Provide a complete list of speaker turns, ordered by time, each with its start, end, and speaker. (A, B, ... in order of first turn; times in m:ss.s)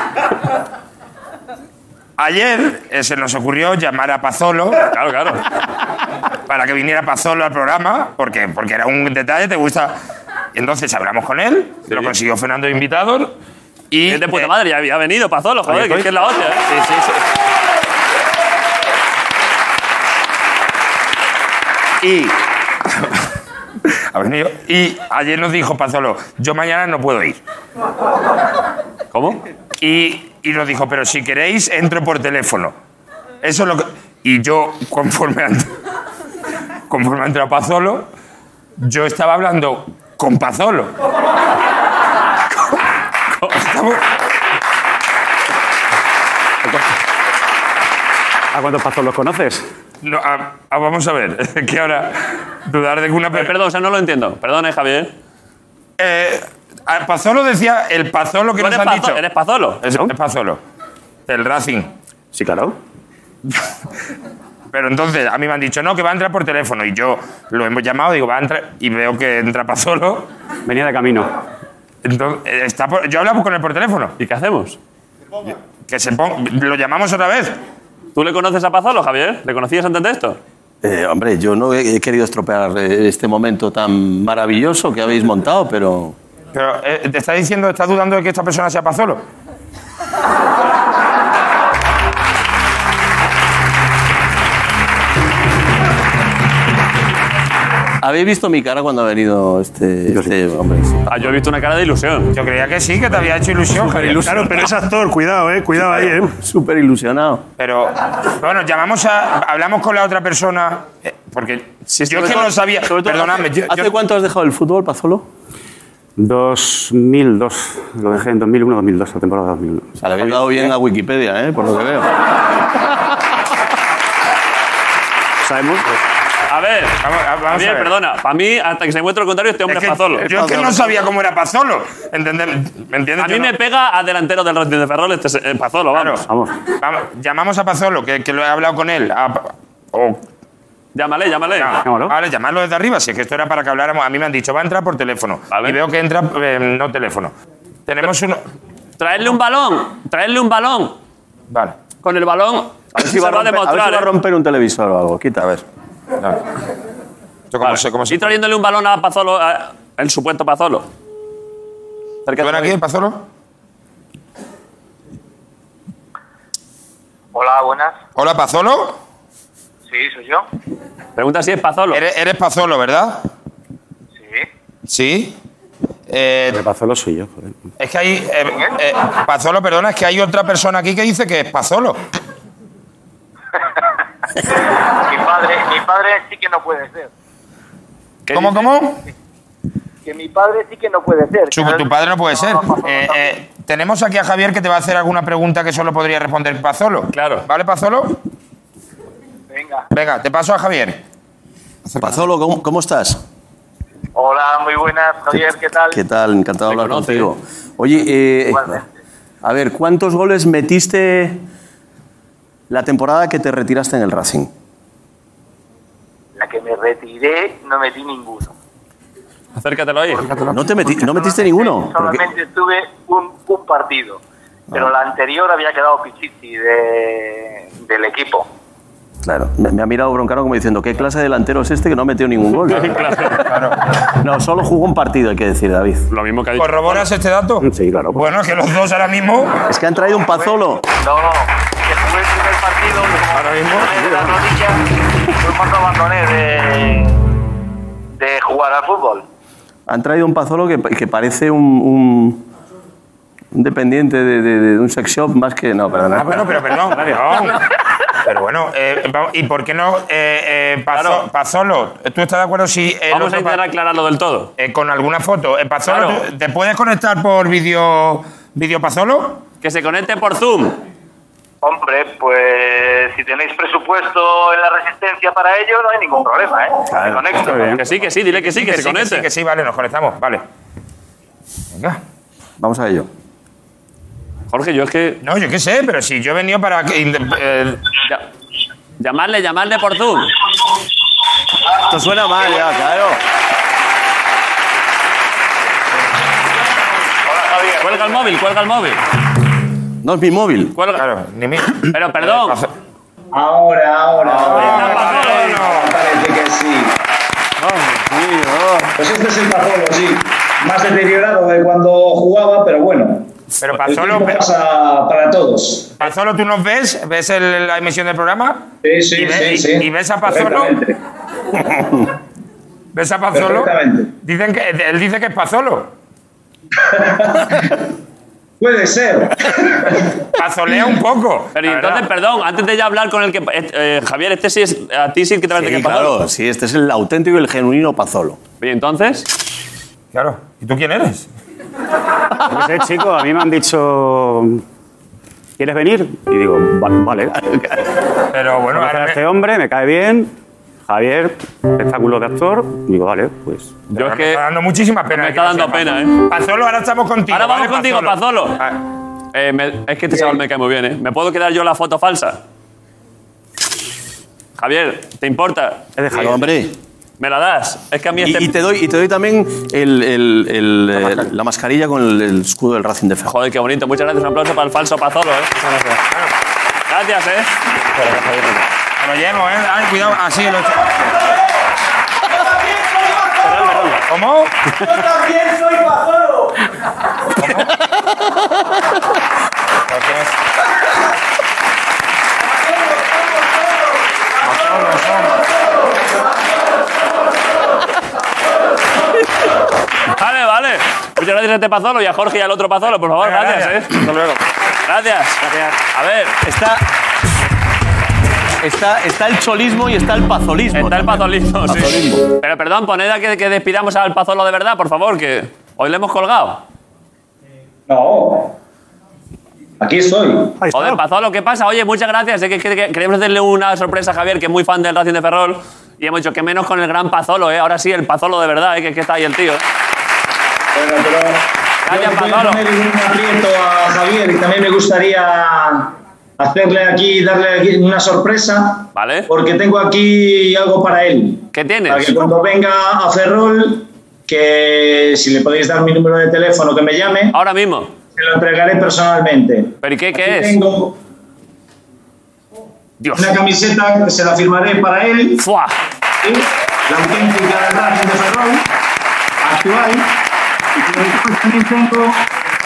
0:02.2-0:04.8 A
0:04.9-0:05.4 B
0:06.4-0:09.9 A
0:10.5-0:13.3 A
0:13.9-0:14.5 A
0:14.1-0:16.7 B
0:15.7-0:16.0 C
0:22.0-0:22.4 A
0:24.1-0:27.4 A
0:29.1-0:29.4 B
0:29.8-0:32.7 A
0:33.4-0:35.7 A
0:36.9-0:38.0 A
0:38.8-0:40.9 A
0:43.4-0:44.0 A
0:48.5-0:49.6 C
0:50.0-0:53.5 A
0:53.3-0:55.1 B
0:56.0-0:59.2 A
0:58.6-1:00.1 B
0:59.8-1:00.6 A
1:01.3-1:01.9 A
1:02.3-1:02.7 C
1:04.7-1:10.3 A
1:10.6-1:11.3 C
1:12.0-1:14.1 A
1:14.2-1:14.8 B
1:15.5-1:17.6 A
1:18.1-1:20.4 B
1:20.8-1:26.1 D
1:26.5-1:29.2 A
1:38.0-1:41.1 D
1:41.1-1:42.3 B
1:42.3-1:44.3 A
1:43.7-1:44.7 D
1:44.2-1:46.4 E
1:45.8-1:47.4 D
1:47.6-1:53.9 A
1:51.9-1:52.5 B
1:52.2-1:55.2 D
1:56.2-2:00.7 C
2:00.0-2:02.1 D
2:05.4-2:06.0 C
2:06.5-2:10.5 B
2:07.0-2:07.9 A
2:09.7-2:13.5 A
2:10.3-2:10.7 C
2:13.2-2:16.2 B
2:15.9-2:16.2 A
2:16.3-2:16.5 C
2:16.8-2:20.2 A
2:21.0-2:21.7 B
2:21.6-2:27.3 A
2:21.8-2:22.1 C
2:25.5-2:25.8 B
2:27.9-2:28.4 A
2:29.0-2:30.9 B
2:32.0-2:34.1 B
2:32.9-2:35.6 D
2:37.5-2:38.4 A
2:37.6-2:40.9 B
2:42.2-2:42.8 B
2:42.4-2:43.2 A
2:47.3-2:48.0 F
2:48.2-2:49.0 A
2:49.9-2:50.4 F
2:51.2-2:52.0 B
2:51.9-2:53.2 A
2:54.2-2:54.4 F
2:54.9-2:55.4 A
2:56.1-2:56.6 A
2:56.5-2:57.5 C
2:57.8-3:02.0 A
2:58.5-2:58.8 F
3:05.0-3:07.1 F
3:08.3-3:08.7 B
3:08.3-3:09.0 A
3:10.0-3:13.3 F
3:11.5-3:18.2 A
3:17.1-3:17.4 B
3:19.5-3:19.9 F
3:19.9-3:21.0 A
3:21.9-3:22.1 A
3:22.0-3:23.2 D
3:24.1-3:26.0 F
3:25.9-3:28.8 D
3:26.7-3:27.3 B
3:28.5-3:28.8 F
3:29.4-3:31.4 D
3:32.7-3:34.5 D
3:36.4-3:38.5 F
3:39.6-3:40.2 B
3:40.5-3:42.2 D
3:41.1-3:44.2 F
3:44.7-3:48.5 F
3:49.2-3:53.1 D
3:52.7-3:53.4 B
3:53.4-3:53.8 A
3:54.0-3:56.1 D
3:56.1-3:57.1 B
3:56.6-3:59.6 A
3:57.6-3:58.4 C
3:59.7-4:00.8 D
4:00.0-4:04.8 F
4:03.3-4:04.0 A
4:05.4-4:07.2 F
4:08.2-4:09.2 F
4:09.9-4:12.4 D
4:13.5-4:16.6 D
4:16.2-4:17.6 A
4:16.9-4:17.4 C
4:18.2-4:23.6 A
4:20.9-4:21.2 B
4:23.1-4:24.5 B
4:24.6-4:29.4 A
4:25.8-4:26.2 B
4:29.6-4:30.8 B
4:31.6-4:37.6 F
4:36.9-4:37.6 D
4:37.4-4:37.8 C
4:37.5-4:39.3 B
4:38.3-4:40.4 A
4:41.7-4:42.0 A
4:42.6-4:43.1 D
4:44.5-4:45.2 B
4:45.2-4:47.8 A
4:49.0-4:50.3 B
4:51.9-4:53.2 D
4:57.2-4:58.3 F
4:57.8-4:59.0 B
5:00.0-5:00.7 D
5:00.7-5:01.0 B
5:01.0-5:02.7 A
5:01.9-5:02.6 B
5:03.3-5:06.9 G
5:04.2-5:05.6 B
5:04.5-5:05.9 A
5:07.6-5:08.0 B
5:08.1-5:08.9 D
5:09.0-5:13.3 G
5:13.6-5:14.4 A
5:13.8-5:16.0 G
5:16.0-5:20.8 A
5:18.8-5:21.0 G
5:21.5-5:21.8 A
5:22.9-5:25.9 A
5:23.3-5:24.1 G
5:26.8-5:27.7 G
5:28.6-5:30.0 G
5:29.9-5:32.0 A
5:31.5-5:36.2 B
5:35.5-5:38.4 D
5:38.6-5:39.3 B
5:40.1-5:41.3 A
5:42.4-5:44.6 C
5:45.6-5:47.4 C
5:48.3-5:49.2 A
5:48.7-5:50.3 C
5:50.9-5:53.8 C
5:53.9-5:58.8 A
5:53.9-5:54.4 B
5:55.1-5:56.2 B
5:57.3-5:58.6 B
5:59.3-6:02.4 B
6:04.6-6:05.8 B
6:06.0-6:06.4 C
6:06.1-6:06.7 D
6:07.2-6:08.5 B
6:08.2-6:13.3 D
6:13.3-6:16.0 B
6:16.9-6:17.5 B
6:19.0-6:21.0 A
6:24.0-6:24.5 A
6:27.4-6:27.7 A
6:29.9-6:30.3 A
6:34.4-6:35.5 A
6:40.2-6:44.0 B
6:43.2-6:44.4 A
6:44.8-6:45.4 B
6:45.9-6:46.4 B
6:46.4-6:46.8 D
6:48.6-6:52.2 D
6:50.7-6:56.6 B
6:57.9-6:58.5 G
6:59.8-7:00.6 G
7:00.6-7:01.0 E
7:00.7-7:09.6 B
7:10.7-7:27.3 G
7:11.8-7:12.6 B
7:18.9-7:19.3 B
7:21.5-7:22.2 B
7:27.3-7:27.9 B
7:28.2-7:31.0 G
7:29.8-7:30.6 B
7:33.0-7:33.4 B
7:33.1-7:35.4 G
7:35.4-7:35.8 B
7:36.2-7:38.6 G
7:39.4-7:40.1 G
7:40.8-7:42.2 G